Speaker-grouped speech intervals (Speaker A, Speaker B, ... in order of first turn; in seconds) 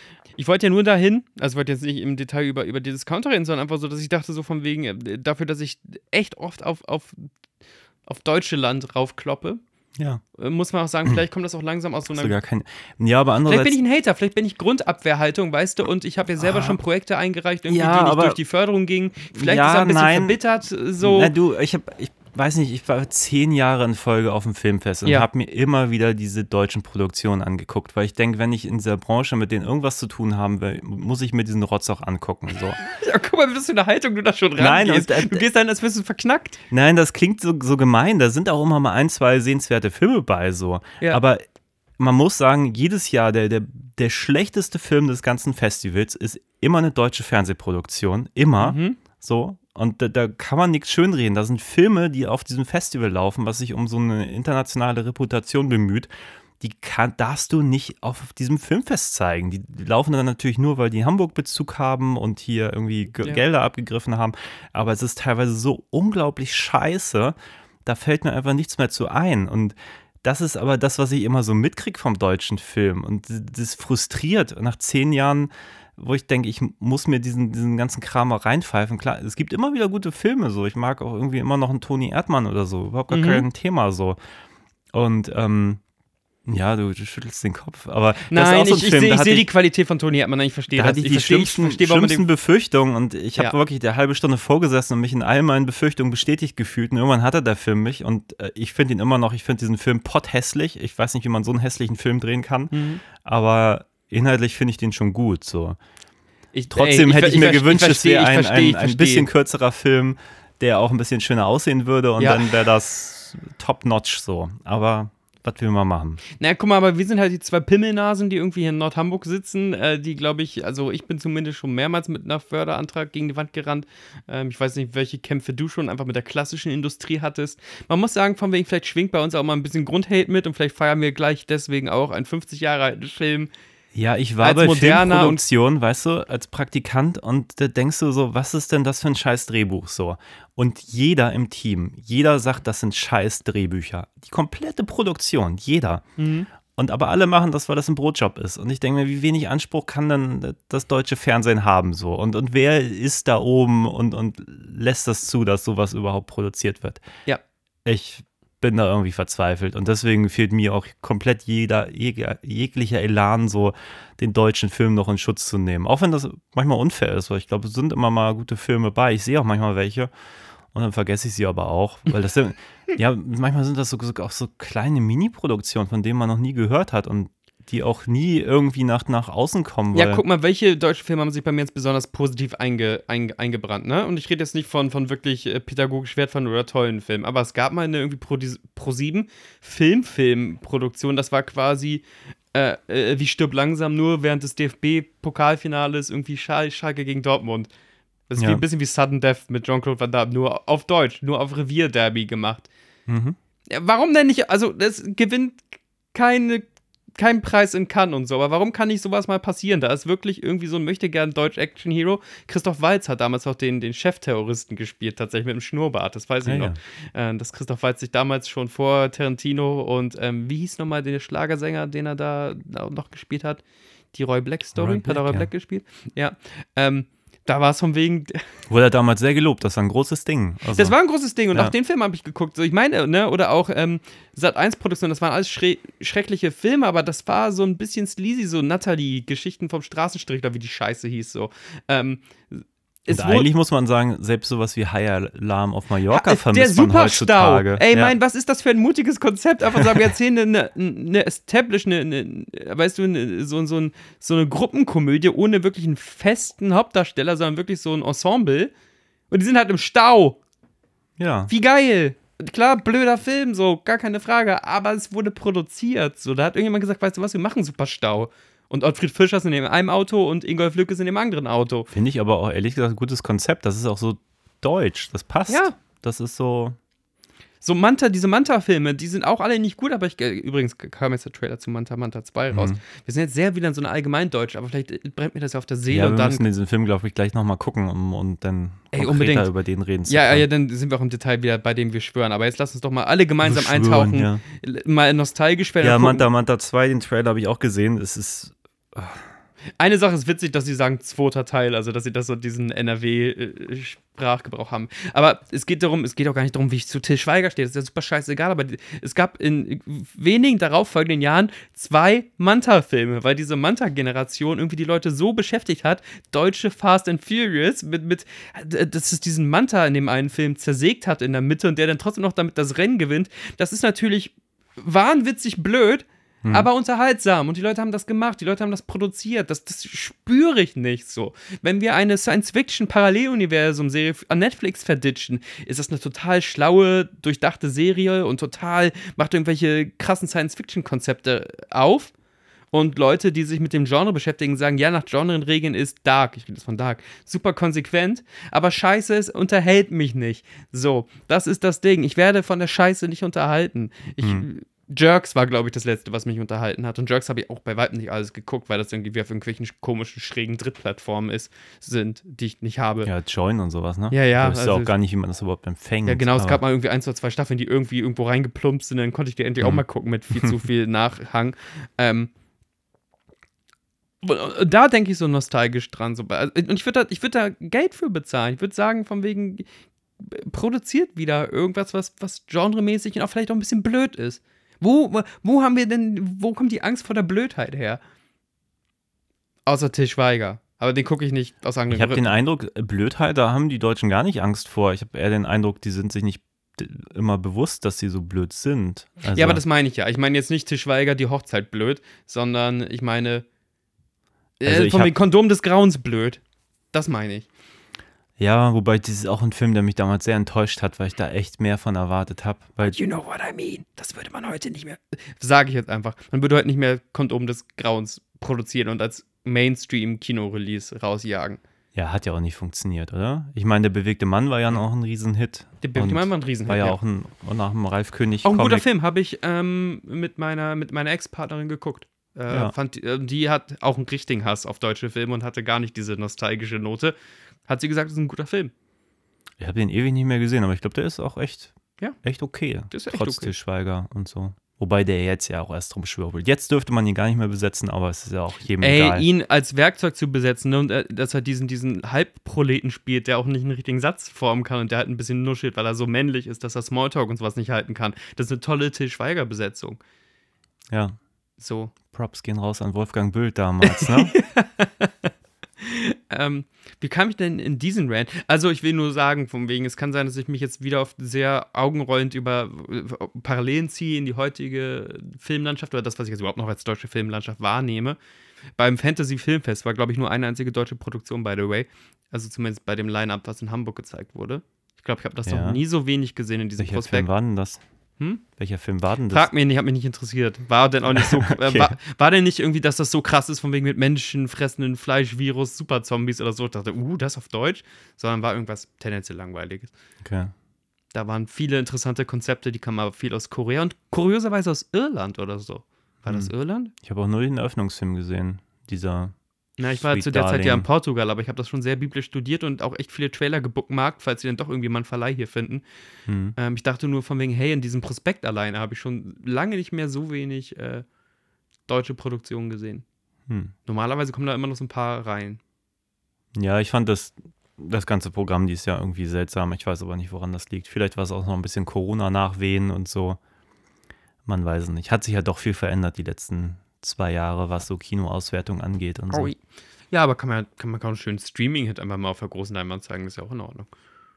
Speaker A: 0.4-7.3, 8.1-9.6, 10.3-12.3, 13.5-21.3, 32.8-36.6, 48.6-49.0, 83.1-83.5, 88.3-92.2, 102.7-103.0, 106.5-109.3, 112.2-112.5, 116.4-133.5, 134.4-135.4, 146.2-146.5, 179.9-197.7, 198.3-202.7, 203.7-223.6, 224.1-228.4, 230.7-243.5, 246.1-258.7, 259.3-260.4, 261.5-271.9, 275.5-275.7, 277.6-286.5, 288.9-289.5, 290.1-296.2, 299.8-342.1, 342.7-363.1, 364.1-364.9, 366.1-372.3, 374.2-379.6, 380.2-388.0, 389.7-392.3, 399.3-403.4, 404.6-406.4, 406.9-407.5, 412.8-421.6, 425.8-427.0, 428.4-437.1, 437.7-438.7, 442.9-443.6, 448.8-460.0, 461.6-461.9, 463.8-465.3, 465.8-478.2, 478.8-487.3, 488.2-488.4, 489.3-499.9, 501.1-506.9, 509.8-515.8, 516.6-521.0, 521.9-523.0, 523.9-525.6, 539.3-539.6, 540.1-543.9
Speaker B: 10.0-10.2, 12.1-13.8, 16.4-16.8, 17.7-18.4, 19.4-20.4, 21.0-32.8, 34.6-35.4, 36.7-41.4, 42.0-56.1, 56.6-84.2, 84.9-85.8, 86.5-89.5, 90.8-105.8, 106.7-116.2, 133.9-146.1, 146.7-157.0, 157.8-170.1, 170.7-180.2, 203.1-203.4, 216.5-216.8, 224.8-225.5, 228.7-231.0, 243.1-248.1, 261.2-261.5, 271.9-276.8, 282.5-282.8, 285.9-290.4, 293.4-294.4, 295.8-299.3, 363.0-366.6, 391.9-399.6, 404.6-405.1, 408.4-413.0, 421.9-428.9, 439.6-449.2, 460.9-461.2, 462.1-464.4, 485.5-485.8, 486.8-487.8, 488.5-489.5, 491.1-492.0, 500.2-500.5, 506.3-509.4, 509.9-510.9, 516.3-516.6, 523.5-523.7, 526.6-533.4, 534.5-539.5